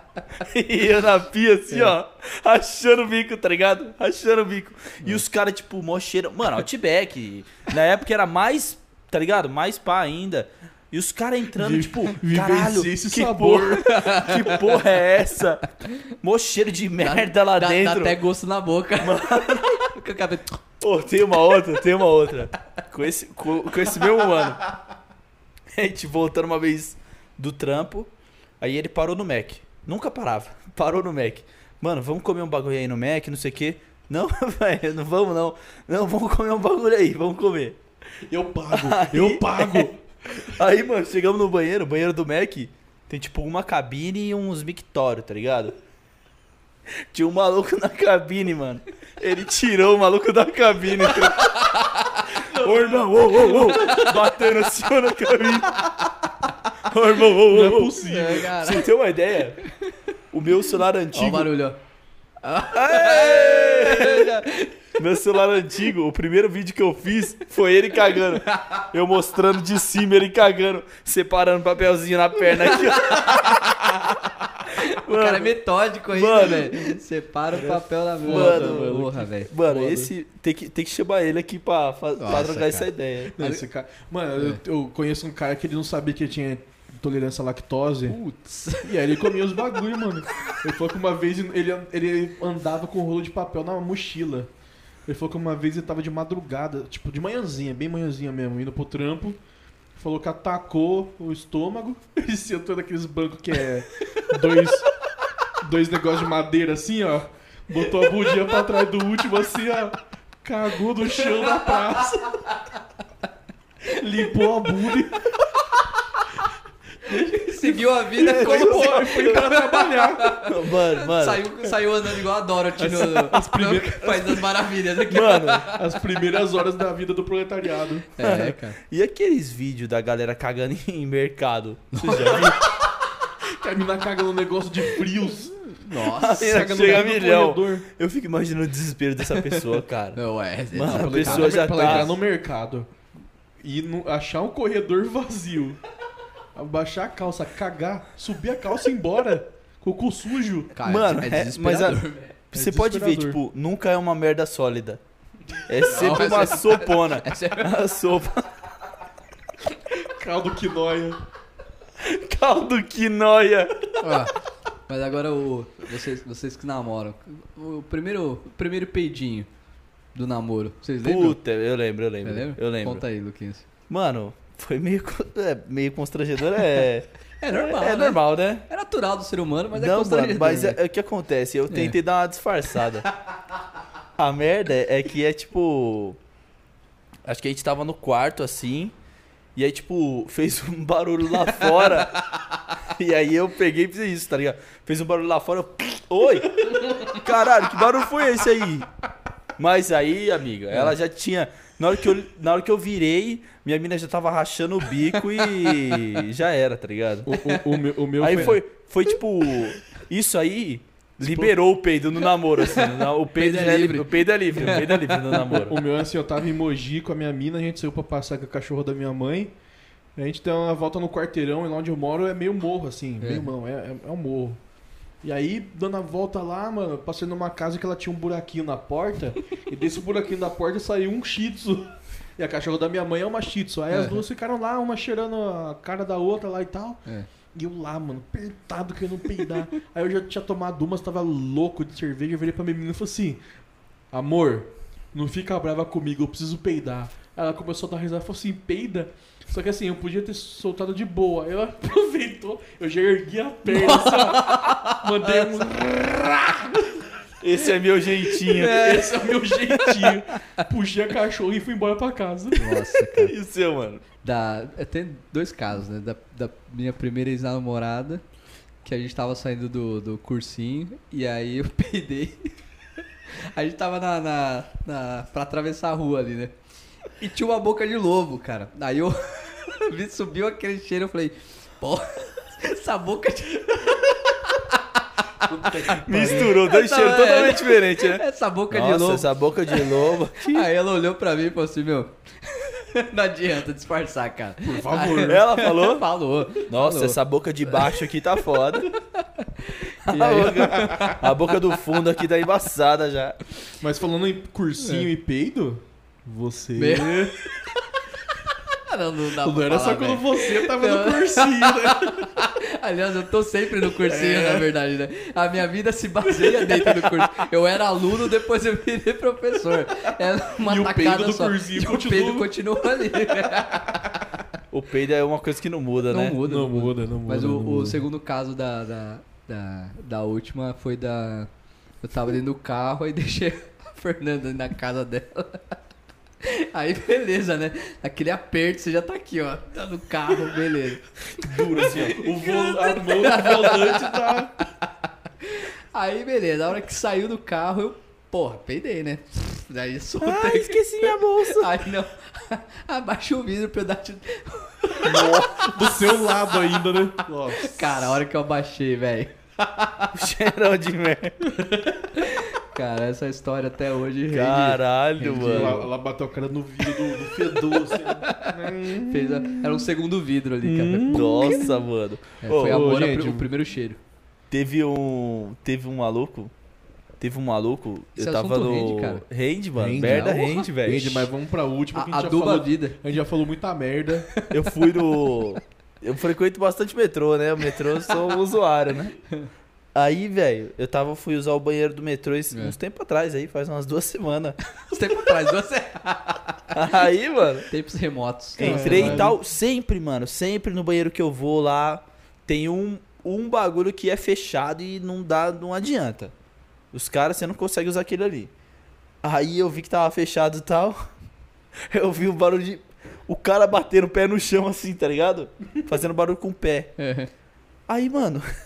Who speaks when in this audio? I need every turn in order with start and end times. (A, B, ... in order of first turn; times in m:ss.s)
0:00.4-0:18.2 A
0:11.6-0:14.0 B
0:13.8-0:14.8 C
0:17.0-0:20.6 C
0:19.0-0:19.9 A
0:20.8-0:24.6 A
0:24.0-0:24.4 C
0:25.7-0:28.1 A
0:28.6-0:37.8 A
0:38.3-0:40.0 B
0:38.7-0:45.8 A
0:47.1-0:56.0 A
0:51.1-0:54.3 C
0:56.8-0:59.6 A
0:57.4-0:58.6 B
0:58.0-0:58.9 C
0:59.6-1:00.0 C
1:00.3-1:01.6 A
1:01.1-1:01.8 C
1:02.4-1:04.7 C
1:02.7-1:04.4 A
1:05.0-1:15.6 A
1:08.1-1:08.8 C
1:12.5-1:13.8 C
1:14.6-1:19.5 C
1:16.1-1:17.0 A
1:17.5-1:20.1 B
1:18.3-1:23.3 A
1:22.2-1:23.6 C
1:23.4-1:28.2 B
1:28.1-1:29.3 C
1:28.8-1:34.5 B
1:35.1-1:39.4 B
1:40.0-1:44.9 B
1:45.6-1:52.4 B
1:51.1-1:52.7 C
1:53.9-1:55.3 B
1:57.1-2:00.4 B
1:57.1-2:06.0 C
1:58.2-1:59.4 A
2:00.4-2:01.5 A
2:02.8-2:04.6 B
2:05.1-2:05.7 A
2:05.6-2:08.1 B
2:08.2-2:08.8 C
2:08.2-2:12.6 A
2:12.0-2:12.6 C
2:12.2-2:12.7 B
2:13.5-2:15.7 B
2:15.7-2:16.6 C
2:15.9-2:20.2 A
2:16.3-2:17.9 B
2:19.3-2:22.1 C
2:20.7-2:22.1 A
2:20.8-2:22.9 B
2:23.6-2:25.8 B
2:26.6-2:30.8 B
2:30.8-2:32.3 C
2:30.8-2:35.0 A
2:32.5-2:33.4 B
2:35.7-2:38.6 A
2:35.8-2:37.8 C
2:39.9-2:41.2 B
2:42.0-2:44.2 A
2:44.0-2:44.4 C
2:44.9-2:49.5 C
2:50.1-2:51.4 C
2:51.0-2:53.0 A
2:52.2-2:53.6 C
2:53.9-2:58.6 A
2:57.4-3:00.8 C
2:59.7-3:03.1 A
3:01.7-3:02.0 C
3:04.2-3:06.2 A
3:07.2-3:08.9 A
3:09.6-3:12.2 A
3:12.8-3:18.9 A
3:19.6-3:27.6 A
3:27.2-3:28.6 B
3:28.2-3:35.8 A
3:31.2-3:31.6 B
3:32.8-3:35.6 C
3:34.6-3:39.5 B
3:40.2-3:44.6 B
3:43.2-3:43.5 C
3:45.2-3:57.0 B
3:53.9-3:54.2 C
3:57.5-4:03.4 B
4:04.1-4:17.0 B
4:13.7-4:15.7 C
4:17.4-4:19.0 A
4:18.4-4:20.4 C
4:18.6-4:22.8 B
4:22.5-4:23.4 C
4:23.1-4:24.0 A
4:24.2-4:28.2 C
4:28.8-4:32.5 C
4:33.3-4:36.5 C
4:37.2-5:01.3 C
4:45.4-4:46.5 B
4:45.9-4:50.7 A
4:54.6-4:55.4 B
4:55.2-4:56.0 A
4:56.7-4:58.9 A
5:00.0-5:03.4 A
5:00.7-5:01.2 B
5:03.8-5:07.4 B
5:04.8-5:05.1 C
5:06.8-5:24.0 C
5:09.4-5:12.4 B
5:14.1-5:14.6 A
5:16.4-5:17.2 B
5:20.6-5:24.3 B
5:24.7-5:26.4 A
5:26.1-5:31.5 C
5:26.4-5:28.0 B
5:32.0-5:35.8 C
5:36.4-5:44.2 C
5:41.4-5:42.2 A
5:41.8-5:44.6 B
5:45.4-6:00.1 C
5:50.2-5:51.8 A
5:55.0-5:55.7 A
5:55.6-5:58.2 B
6:00.1-6:01.4 A
6:02.0-6:05.9 C
6:04.3-6:05.8 A
6:05.5-6:09.9 B
6:06.9-6:11.8 C
6:10.6-6:11.7 B
6:11.1-6:12.9 A
6:12.4-6:14.0 C
6:12.6-6:13.5 B
6:14.5-6:16.5 A
6:17.2-6:21.3 A
6:18.2-6:19.2 C
6:19.8-6:24.3 B
6:19.9-6:20.7 C
6:21.9-6:23.0 C
6:24.3-6:25.6 C
6:24.5-6:29.2 A
6:27.8-6:28.4 C
6:29.9-6:34.6 A
6:34.8-6:36.9 C
6:36.7-6:37.7 A
6:37.7-6:39.3 C
6:38.6-6:46.3 A
6:38.6-6:39.4 B
6:46.9-6:48.5 A
6:49.2-6:51.1 A
6:51.8-6:57.0 A
6:57.0-6:57.3 C
6:57.9-6:58.5 A